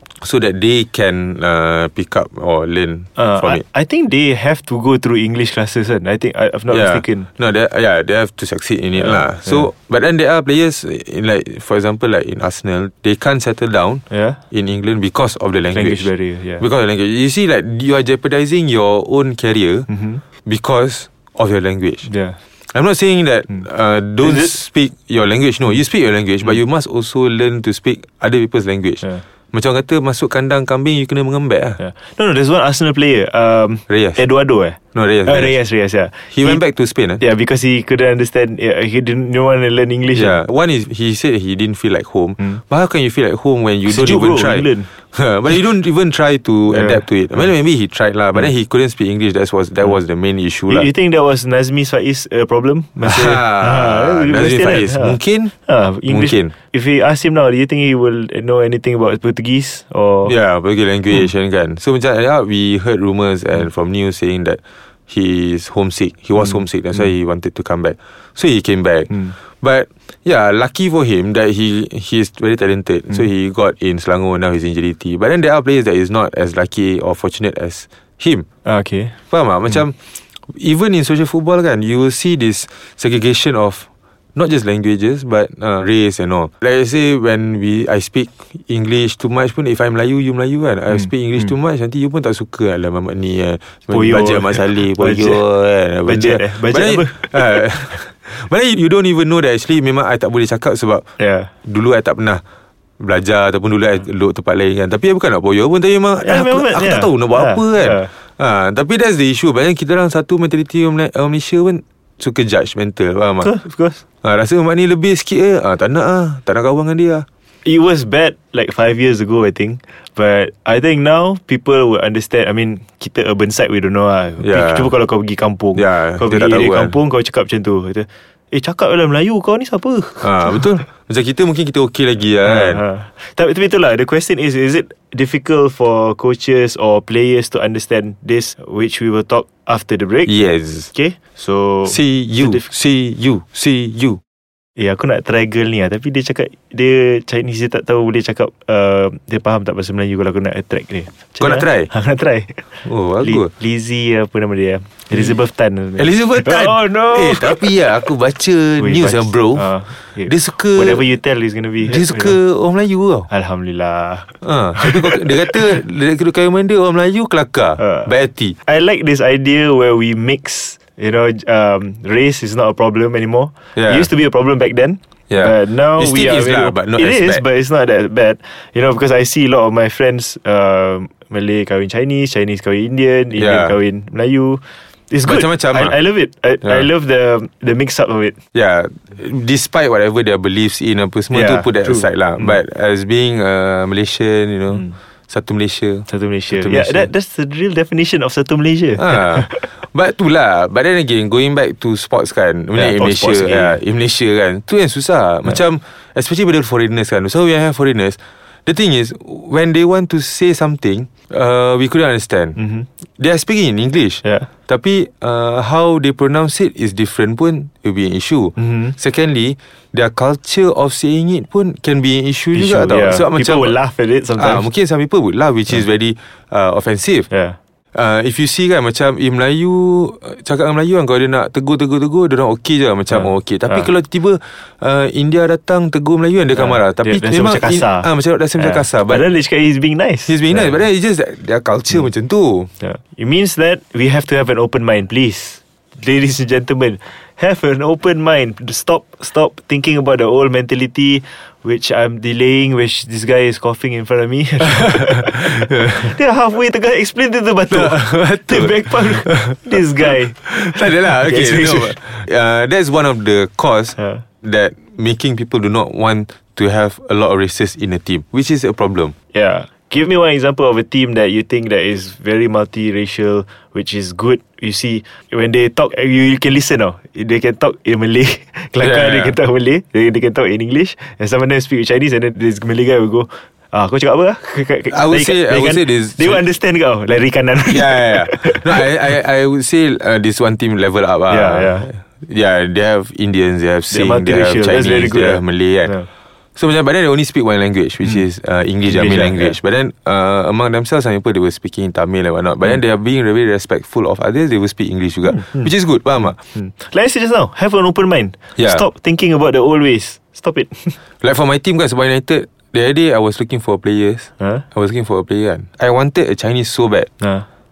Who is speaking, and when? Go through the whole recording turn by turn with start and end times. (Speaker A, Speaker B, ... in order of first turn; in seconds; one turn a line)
Speaker A: 0.2-3.6
Speaker B: 3.1-7.3
Speaker A: 6.7-16.1
Speaker B: 9.0-9.6
Speaker B: 14.1-14.4
Speaker B: 15.7-16.6
Speaker A: 16.6-19.9
Speaker B: 19.9-20.2
Speaker A: 20.4-22.1
Speaker B: 22.1-22.4
Speaker A: 22.7-31.8
Speaker B: 24.2-24.5
Speaker B: 31.8-36.6
Speaker A: 33.9-34.2
Speaker A: 34.9-35.5
Speaker A: 36.3-37.2
Speaker B: 37.2-40.4
Speaker A: 40.1-50.9
Speaker B: 43.9-44.9
Speaker B: 46.7-47.0
Speaker B: 50.7-60.3
Speaker A: 53.0-55.5
Speaker A: 56.1-56.5
Speaker A: 60.2-78.4
Speaker B: 78.6-79.1
Speaker A: 79.3-80.0
Speaker A: 80.5-101.0
Speaker B: 93.9-95.4
Speaker B: 96.0-97.7
Speaker B: 101.2-101.5
Speaker A: 101.6-102.4
Speaker A: 103.0-113.5
Speaker B: 106.2-108.1
Speaker B: 113.4-114.0
Speaker A: 114.2-117.2
Speaker B: 117.6-130.6
Speaker A: 124.4-124.9
Speaker A: 125.7-126.9
Speaker A: 130.2-132.8
Speaker B: 132.4-140.3
Speaker A: 140.2-140.9
Speaker B: 140.9-142.7
Speaker A: 141.8-144.2
Speaker B: 144.8-157.8
Speaker A: 151.4-151.9
Speaker A: 152.8-153.5
Speaker A: 156.0-159.6
Speaker B: 158.8-162.4
Speaker A: 160.2-161.0
Speaker A: 161.8-163.3
Speaker B: 163.3-165.5
Speaker A: 164.4-168.6
Speaker B: 167.8-168.1
Speaker B: 168.6-188.4
Speaker A: 173.8-174.1
Speaker A: 175.3-177.4
Speaker A: 183.3-183.7
Speaker A: 185.2-185.9
Speaker A: 188.5-197.1
Speaker B: 191.3-192.6
Speaker B: 196.1-199.7
Speaker A: 198.9-223.7
Speaker B: 202.7-203.8
Speaker B: 212.6-212.9
Speaker B: 218.6-218.9
Speaker B: 222.5-224.6
Speaker A: 224.3-227.2
Speaker B: 227.3-227.6
Speaker A: 227.9-239.2
Speaker B: 233.1-233.9
Speaker B: 236.5-240.8
Speaker A: 240.2-242.7
Speaker B: 242.8-262.0
Speaker A: 255.0-256.1
Speaker A: 257.7-269.1
Speaker B: 263.9-264.2
Speaker B: 269.3-288.9
Speaker A: 278.8-279.4
Speaker A: 284.9-286.4
Speaker A: 287.6-295.9
Speaker B: 291.3-291.9
Speaker B: 293.9-296.1
Speaker A: 296.6-306.4
Speaker B: 298.9-299.6
Speaker B: 305.4-305.6
Speaker B: 306.3-311.0
Speaker A: 311.2-317.1
Speaker B: 317.2-317.4